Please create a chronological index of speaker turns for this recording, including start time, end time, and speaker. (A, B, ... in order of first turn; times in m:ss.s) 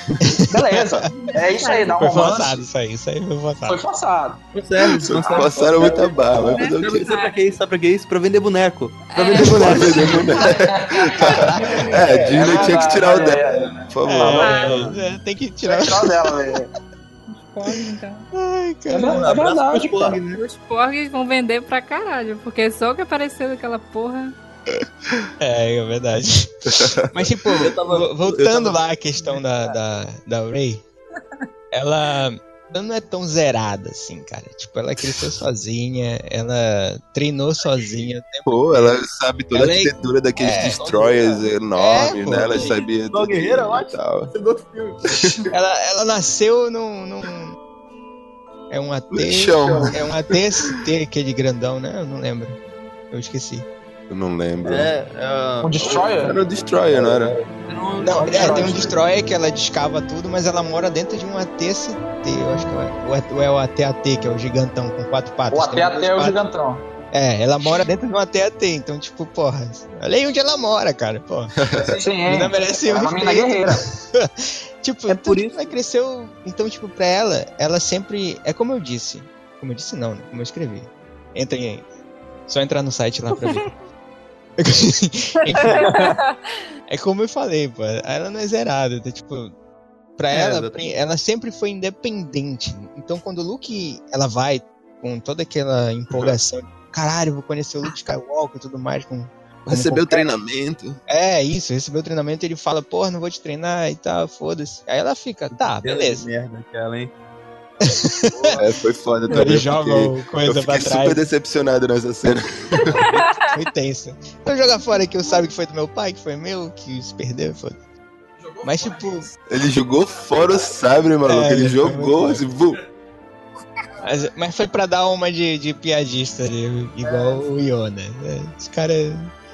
0:00.2-0:01.0 A
0:00.5-0:02.7 B
0:01.1-0:02.3 C
0:02.0-0:03.8 A
0:03.7-0:04.4 B
0:04.5-0:10.4 D
0:05.0-0:07.1 E
0:05.1-0:06.4 B
0:06.5-0:07.3 C
0:09.1-0:10.7 C
0:09.4-0:14.6 E
0:10.7-0:11.0 B
0:11.2-0:11.9 C
0:11.4-0:11.8 A
0:11.6-0:14.6 B
0:12.4-0:12.6 C
0:14.0-0:16.3 A
0:14.4-0:14.9 C
0:14.5-0:15.0 D
0:15.6-0:16.7 B
0:17.3-0:18.3 C
0:18.3-0:19.4 A
0:18.9-0:20.2 B
0:19.1-0:20.4 D
0:20.3-0:24.3 C
0:25.4-0:30.8 A
0:27.6-0:28.8 D
0:31.7-0:39.0 A
0:38.4-0:44.3 E
0:39.5-0:40.8 A
0:40.4-0:41.4 D
0:41.8-0:42.7 A
0:42.5-0:45.5 D
0:45.1-0:45.4 E
0:45.5-0:47.6 A
0:48.7-0:52.6 A
0:49.1-0:50.3 E
0:53.1-0:53.7 A
0:54.1-0:54.9 E
0:54.6-0:56.2 D
0:55.6-0:56.4 B
0:56.1-0:57.3 E
0:57.6-0:59.0 D
0:58.0-1:06.4 A
0:58.2-0:58.9 B
1:05.5-1:06.8 B
1:07.1-1:11.5 A
1:11.6-1:12.0 E
1:12.0-1:13.8 B
1:12.2-1:21.8 A
1:15.1-1:15.7 D
1:22.5-1:23.7 A
1:24.6-1:26.0 A
1:25.6-1:26.1 D
1:25.6-1:26.2 C
1:26.9-1:29.5 A
1:30.2-1:40.4 A
1:30.3-1:30.8 D
1:39.7-1:41.0 E
1:41.1-1:46.2 A
1:45.5-1:47.1 D
1:47.8-1:48.6 A
1:48.6-1:53.0 E
1:49.3-1:51.2 A
1:52.9-1:57.8 A
1:53.1-1:53.5 C
1:58.6-1:59.3 A
1:59.5-2:02.8 E
2:01.2-2:02.5 A
2:04.0-2:09.3 A